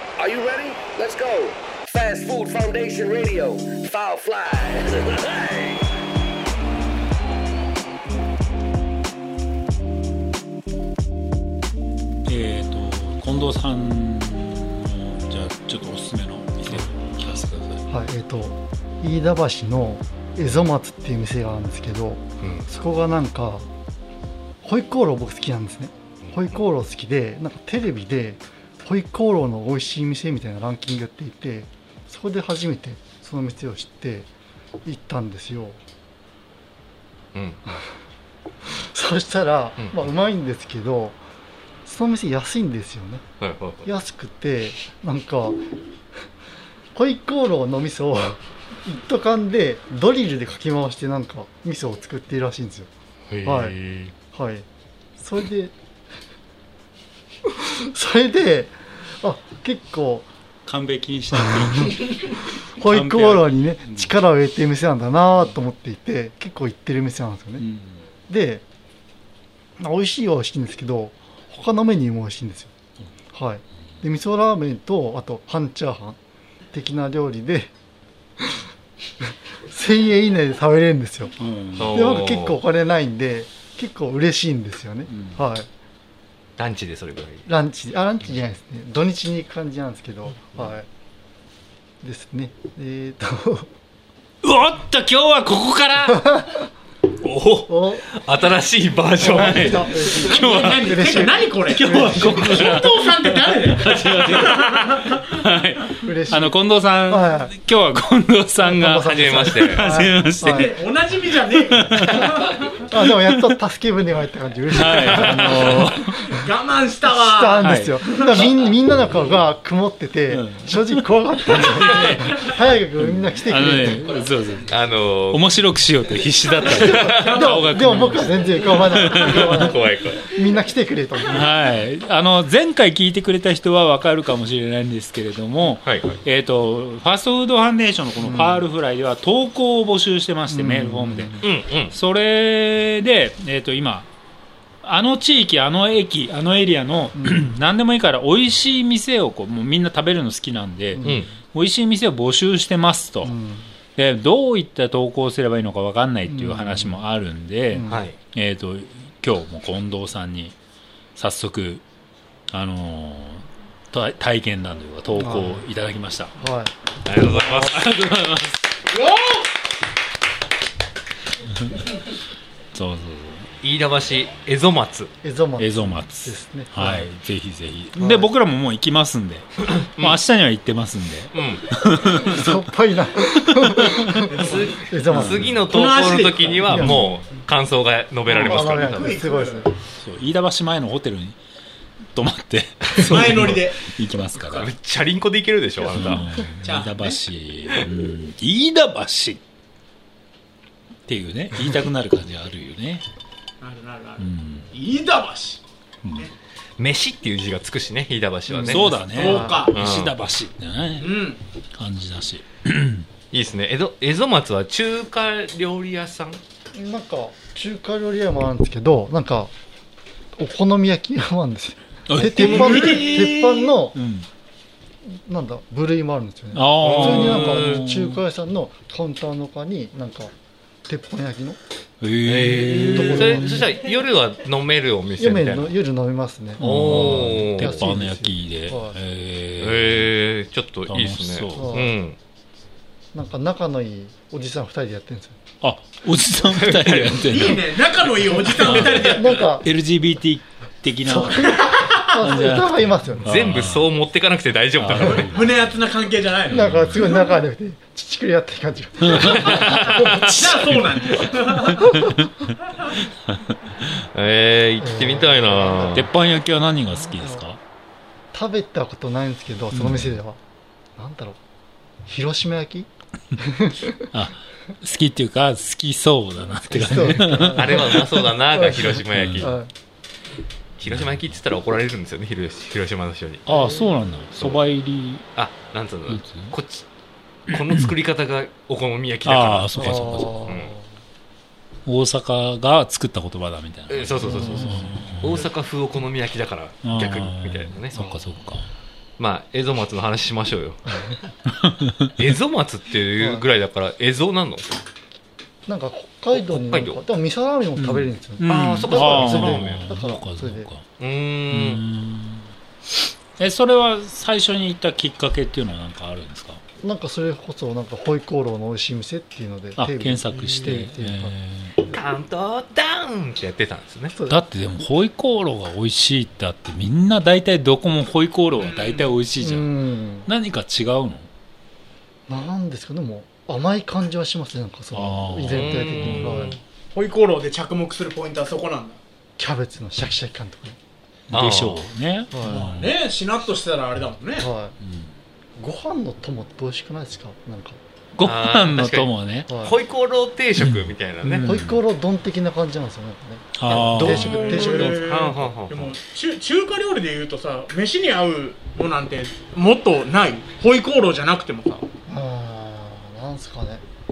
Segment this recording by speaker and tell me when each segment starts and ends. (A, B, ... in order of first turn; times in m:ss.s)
0:00.2-0:05.9 A
0:12.2-0:17.8 B
0:17.9-0:23.6 C
0:22.4-0:22.7 D
0:24.6-0:34.3 C
0:26.2-0:26.6 D
0:34.8-0:35.8 C
0:37.3-0:37.6 D
0:38.6-0:41.2 C
0:41.8-0:43.2 C
0:43.4-0:43.9 D
0:43.8-0:45.6 C
0:46.9-0:52.9 C
0:53.3-0:54.1 D
0:53.4-0:53.7 C
0:54.3-0:54.6 C
0:55.2-0:55.7 C
0:57.6-1:00.3 C
1:00.6-1:04.1 B
1:01.3-1:02.0 C
1:02.7-1:07.6 C
1:07.6-1:08.0 B
1:08.3-1:08.6 C
1:09.8-1:12.7 C
1:13.3-1:16.2 C
1:16.7-1:17.7 C
1:19.6-1:21.4 C
1:21.4-1:22.0 B
1:21.8-1:22.6 D
1:21.9-1:25.7 C
1:25.1-1:25.4 B
1:26.6-1:27.4 D
1:27.4-1:30.8 C
1:32.0-1:33.7 C
1:34.4-1:36.2 B
1:36.2-1:36.5 C
1:37.2-1:40.2 D
1:37.7-1:38.1 C
1:39.2-1:42.6 C
1:40.0-1:41.0 B
1:40.2-1:45.1 E
1:41.7-1:50.7 B
1:46.0-1:47.5 C
1:48.6-1:50.8 C
1:49.0-1:49.8 D
1:50.1-1:52.5 E
1:51.6-1:52.4 B
1:52.9-1:56.1 C
1:53.1-1:53.5 B
1:54.7-1:56.3 B
1:54.9-1:55.8 D
1:56.3-1:58.4 E
1:57.1-2:04.1 C
1:57.6-1:58.0 B
2:00.3-2:04.7 B
2:04.6-2:05.5 D
2:05.3-2:09.7 B
2:06.6-2:07.5 D
2:06.7-2:11.5 C
2:09.1-2:10.3 D
2:11.2-2:24.1 B
2:15.8-2:16.2 D
2:18.2-2:18.6 C
2:20.5-2:21.4 C
2:21.4-2:21.9 D
2:24.8-2:33.4 B
2:27.2-2:27.4 C
2:30.9-2:31.3 C
2:31.0-2:31.3 D
2:33.2-2:33.7 C
2:33.9-2:40.6 B
2:36.3-2:37.0 C
2:37.7-2:38.0 C
2:37.9-2:38.2 D
2:41.2-2:41.8 B
2:42.5-2:46.3 B
2:45.1-2:45.6 C
2:46.4-2:46.7 C
2:47.0-2:48.0 D
2:47.2-2:48.6 B
2:48.9-2:49.5 E
2:52.7-2:53.5 B
2:53.6-2:55.1 D
2:55.2-2:57.1 C
2:55.6-3:02.7 B
2:58.0-2:58.3 C
2:59.6-3:00.2 D
3:01.3-3:01.6 D
3:02.2-3:05.6 C
3:03.4-3:04.2 B
3:04.3-3:04.9 E
3:04.4-3:09.1 D
3:05.1-3:05.5 B
3:05.7-3:07.4 E
3:06.7-3:07.0 C
3:08.3-3:09.7 C
3:08.3-3:09.7 E
3:10.0-3:11.4 B
3:12.1-3:14.7 B
3:12.9-3:13.8 E
3:14.4-3:16.2 D
3:15.9-3:19.4 B
3:16.6-3:17.2 E
3:21.0-3:23.0 B
3:23.6-3:25.6 E
3:24.2-3:24.7 B
3:26.0-3:26.3 B
3:26.8-3:28.9 D
3:28.5-3:29.7 C
3:28.6-3:31.1 B
3:29.0-3:29.8 E
3:29.7-3:30.1 D
3:31.0-3:31.4 E
3:31.8-3:33.1 B
3:33.3-3:36.4 D
3:36.7-3:39.5 C
3:40.4-3:44.0 C
3:42.1-3:44.3 B
3:42.4-3:43.2 D
3:45.1-3:50.3 C
3:46.5-3:48.2 B
3:46.8-3:47.8 D
3:50.9-3:51.6 C
3:52.0-3:53.7 B
3:52.2-3:55.7 D
3:52.8-3:53.7 C
3:55.2-3:59.0 C
3:56.6-4:00.1 B
3:56.6-3:57.9 D
3:59.6-4:02.2 D
4:00.9-4:01.7 B
4:01.5-4:01.9 C
4:03.1-4:05.4 C
4:05.6-4:07.6 B
4:06.4-4:07.3 D
4:07.2-4:09.4 E
4:08.5-4:11.5 B
4:08.7-4:09.7 C
4:11.0-4:13.3 C
4:11.4-4:12.1 E
4:12.2-4:13.9 B
4:13.2-4:15.3 D
4:14.8-4:15.6 B
4:15.3-4:17.0 E
4:16.5-4:20.1 C
4:19.0-4:19.6 B
4:19.2-4:20.5 D
4:19.7-4:21.9 E
4:24.1-4:26.1 D
4:24.8-4:26.1 C
4:25.9-4:27.6 B
4:26.9-4:27.5 C
4:28.3-4:30.4 C
4:29.7-4:30.2 B
4:31.0-4:31.4 C
4:32.1-4:32.9 C
4:33.4-4:34.0 C
4:34.1-4:38.0 B
4:36.7-4:39.7 C
4:37.3-4:39.5 D
4:39.1-4:39.5 B
4:40.8-4:43.4 D
4:40.9-4:41.2 B
4:43.4-4:45.2 B
4:43.5-4:43.9 C
4:44.3-4:44.6 D
4:45.4-4:46.8 D
4:46.1-4:46.5 B
4:47.5-4:50.7 D
4:47.5-4:47.9 B
4:49.2-4:50.4 B
4:49.8-4:50.9 C
4:51.8-4:55.4 B
4:53.9-4:58.0 D
4:54.2-4:54.9 C
4:56.8-4:58.7 B
4:59.2-5:00.9 D
5:01.5-5:02.1 B
5:02.2-5:04.7 D
5:03.2-5:03.4 C
5:05.7-5:10.7 C
5:06.3-5:07.0 D
5:07.8-5:10.8 B
5:08.5-5:09.8 D
5:11.0-5:11.8 D
5:11.5-5:12.5 B
5:13.4-5:16.6 B
5:16.8-5:21.3 C
5:19.8-5:21.7 B
5:20.3-5:20.7 E
5:21.8-5:24.1 D
5:24.1-5:24.4 C
5:24.3-5:29.7 B
5:28.6-5:29.2 E
5:29.4-5:30.3 C
5:30.2-5:31.3 B
5:32.3-5:36.6 C
5:34.9-5:36.4 B
5:35.5-5:36.6 D
5:36.9-5:39.0 E
5:39.4-5:40.8 C
5:41.3-5:42.9 B
5:41.3-5:41.8 D
5:42.3-5:42.7 C
5:42.4-5:44.5 E
5:44.4-5:44.8 C
5:44.8-5:45.1 B
5:45.6-5:47.8 C
5:48.1-5:49.5 B
5:48.2-5:51.5 D
5:49.5-5:49.8 C
5:50.6-5:51.8 B
5:51.4-5:55.0 C
5:53.6-5:54.6 B
5:53.7-5:55.9 D
5:54.0-6:01.9 E
6:02.1-6:03.8 C